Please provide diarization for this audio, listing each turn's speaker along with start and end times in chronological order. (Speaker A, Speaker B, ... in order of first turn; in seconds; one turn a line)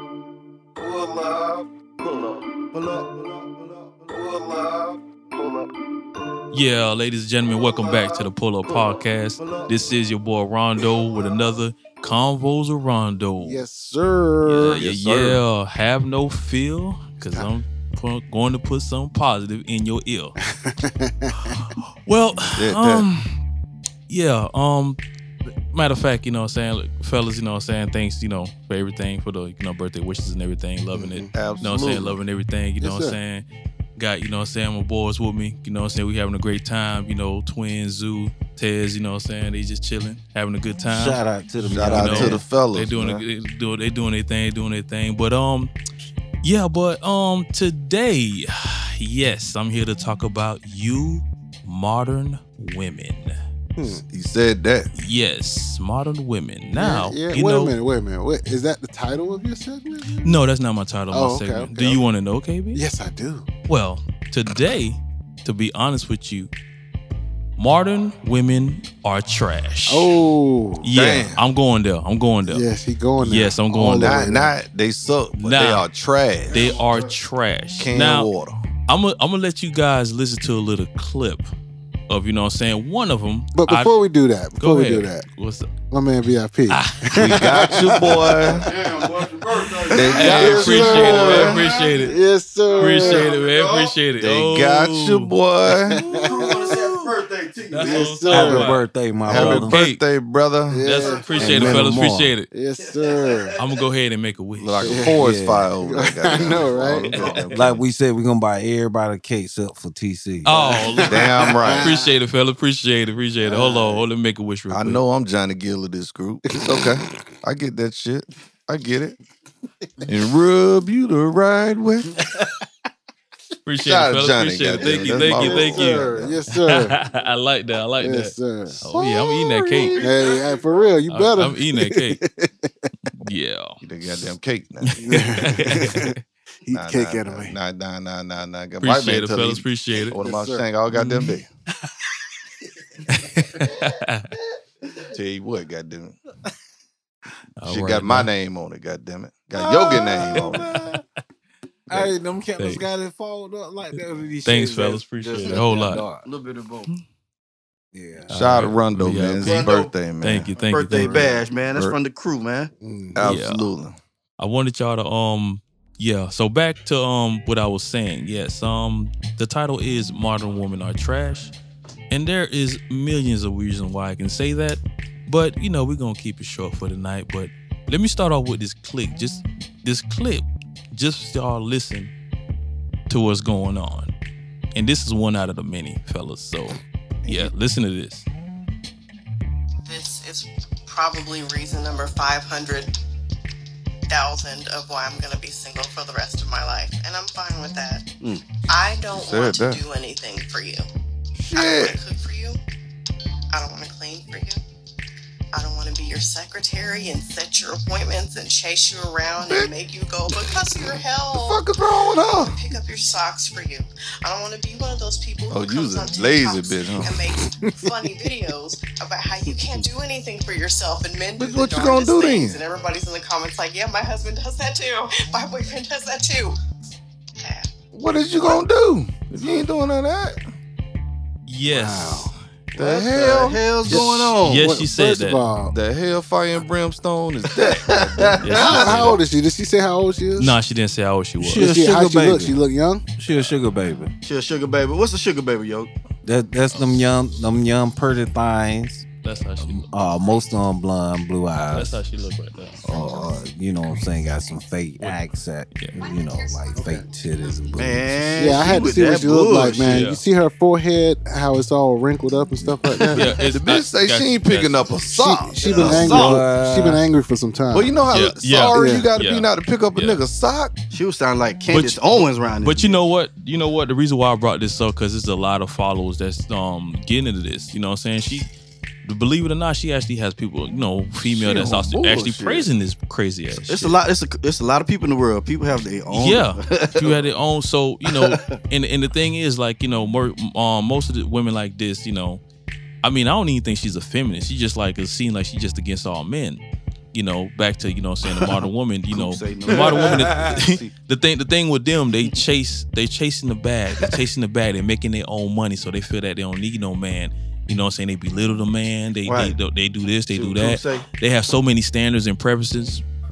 Speaker A: 0.8-5.6
Speaker B: 6.5-13.6
Speaker A: 7.6-8.2
Speaker A: 8.8-9.7
Speaker C: 13.4-14.8
Speaker B: 14.4-20.4
Speaker D: 14.8-15.4
Speaker C: 20.6-21.7
Speaker B: 21.5-23.3
Speaker D: 22.4-23.1
Speaker B: 24.1-33.4
Speaker C: 30.9-31.3
Speaker D: 31.3-32.2
Speaker C: 32.8-33.1
Speaker B: 34.0-41.2
Speaker E: 40.9-42.4
Speaker D: 41.6-43.2
Speaker B: 41.9-45.7
Speaker B: 46.4-53.4
Speaker C: 53.8-54.0
Speaker D: 53.8-54.9
Speaker B: 54.9-57.7
Speaker C: 56.8-60.3
Speaker B: 60.2-62.8
Speaker C: 61.1-62.0
Speaker C: 62.7-63.5
Speaker B: 63.7-66.5
Speaker B: 67.6-70.1
Speaker C: 69.9-70.8
Speaker B: 70.8-72.7
Speaker D: 70.9-71.4
Speaker C: 72.5-74.5
Speaker B: 73.2-74.2
Speaker D: 74.0-76.6
Speaker B: 75.4-75.8
Speaker B: 76.5-78.3
Speaker A: 76.5-77.0
Speaker D: 77.8-78.6
Speaker B: 78.9-81.5
Speaker B: 82.1-84.0
Speaker C: 83.5-85.2
Speaker B: 84.6-85.7
Speaker C: 85.9-88.2
Speaker B: 86.7-88.1
Speaker D: 87.2-88.7
Speaker A: 88.6-90.2
Speaker E: 89.1-89.5
Speaker C: 89.9-93.3
Speaker D: 89.9-91.6
Speaker B: 90.1-92.2
Speaker A: 90.9-92.1
Speaker A: 92.7-94.0
Speaker B: 92.8-95.3
Speaker D: 94.2-97.1
Speaker C: 95.9-96.6
Speaker A: 96.0-98.0
Speaker B: 97.7-100.0
Speaker C: 97.8-98.7
Speaker E: 98.3-99.8
Speaker D: 99.2-101.9
Speaker C: 100.7-101.8
Speaker B: 100.8-102.5
Speaker A: 101.1-101.3
Speaker E: 101.4-102.3
Speaker C: 102.5-103.6
Speaker A: 102.8-103.8
Speaker B: 103.6-105.1
Speaker D: 104.6-107.8
Speaker C: 104.8-105.2
Speaker E: 105.1-105.7
Speaker C: 105.8-107.3
Speaker A: 107.0-107.5
Speaker E: 107.5-110.5
Speaker B: 110.4-115.0
Speaker C: 110.5-112.1
Speaker D: 111.0-111.9
Speaker C: 113.4-114.0
Speaker D: 114.7-119.2
Speaker C: 116.5-117.1
Speaker D: 120.1-122.2
Speaker B: 123.7-130.0
Speaker D: 123.8-126.4
Speaker C: 124.8-127.0
Speaker C: 128.0-132.9
Speaker A: 130.0-130.6
Speaker B: 131.1-132.2
Speaker B: 133.2-133.8
Speaker D: 133.8-135.0
Speaker B: 134.8-136.2
Speaker C: 135.0-136.1
Speaker C: 136.7-137.5
Speaker D: 136.7-141.5
Speaker B: 138.8-140.2
Speaker C: 140.1-140.7
Speaker B: 140.9-141.4
Speaker B: 143.4-144.3
Speaker D: 145.1-146.2
Speaker B: 147.6-148.3
Speaker D: 147.7-150.6
Speaker E: 149.5-151.0
Speaker B: 150.3-150.8
Speaker E: 151.9-156.3
Speaker B: 151.9-152.8
Speaker B: 154.4-156.1
Speaker A: 156.2-156.9
Speaker E: 157.9-158.3
Speaker B: 158.3-159.7
Speaker D: 158.3-160.5
Speaker A: 159.4-159.9
Speaker B: 160.2-161.3
Speaker A: 160.6-162.7
Speaker C: 161.0-161.3
Speaker C: 162.8-163.2
Speaker D: 163.1-164.0
Speaker B: 163.2-163.6
Speaker B: 164.4-171.5
Speaker B: 172.1-182.1
Speaker B: 183.1-184.1
Speaker B: 184.7-188.2
Speaker D: 187.2-187.5
Speaker F: 189.8-192.9
Speaker F: 194.1-198.1
Speaker F: 198.7-200.8
Speaker D: 199.1-199.8
Speaker D: 201.4-202.0
Speaker F: 201.5-202.6
Speaker F: 203.5-204.6
Speaker F: 205.5-211.6
Speaker D: 209.4-209.7
Speaker D: 211.4-212.6
Speaker F: 212.3-226.5
Speaker D: 215.5-217.2
Speaker C: 217.6-218.1
Speaker D: 221.4-222.6
Speaker F: 227.3-227.7
Speaker D: 227.9-230.3
Speaker B: 231.5-232.3
Speaker C: 231.7-232.3
Speaker D: 232.7-234.1
Speaker A: 232.7-234.7
Speaker B: 233.9-235.4
Speaker C: 234.6-235.7
Speaker D: 235.7-239.2
Speaker A: 237.6-238.4
Speaker B: 238.4-239.2
Speaker C: 238.5-240.6
Speaker B: 240.4-241.7
Speaker E: 241.4-242.6
Speaker C: 241.5-243.0
Speaker E: 243.2-244.1
Speaker A: 244.2-245.9
Speaker E: 246.2-249.0
Speaker B: 249.2-249.9
Speaker E: 249.6-252.0
Speaker B: 251.7-252.8
Speaker E: 252.8-258.1
Speaker C: 256.7-257.0
Speaker A: 257.8-260.0
Speaker C: 258.4-263.3
Speaker B: 259.8-260.2
Speaker B: 263.1-264.9
Speaker D: 263.3-266.4
Speaker C: 265.1-267.9
Speaker A: 265.7-266.4
Speaker B: 265.9-266.2
Speaker E: 266.1-267.0
Speaker D: 267.7-270.7
Speaker B: 268.1-270.2
Speaker C: 268.7-269.1
Speaker A: 270.9-273.0
Speaker B: 271.7-278.5
Speaker B: 279.0-284.0
Speaker D: 281.2-282.7
Speaker A: 283.5-287.3
Speaker B: 286.1-292.4
Speaker A: 288.1-288.6
Speaker B: 293.0-296.6
Speaker B: 297.1-313.0
Speaker A: 298.3-300.9
Speaker A: 309.2-309.6
Speaker A: 310.3-311.1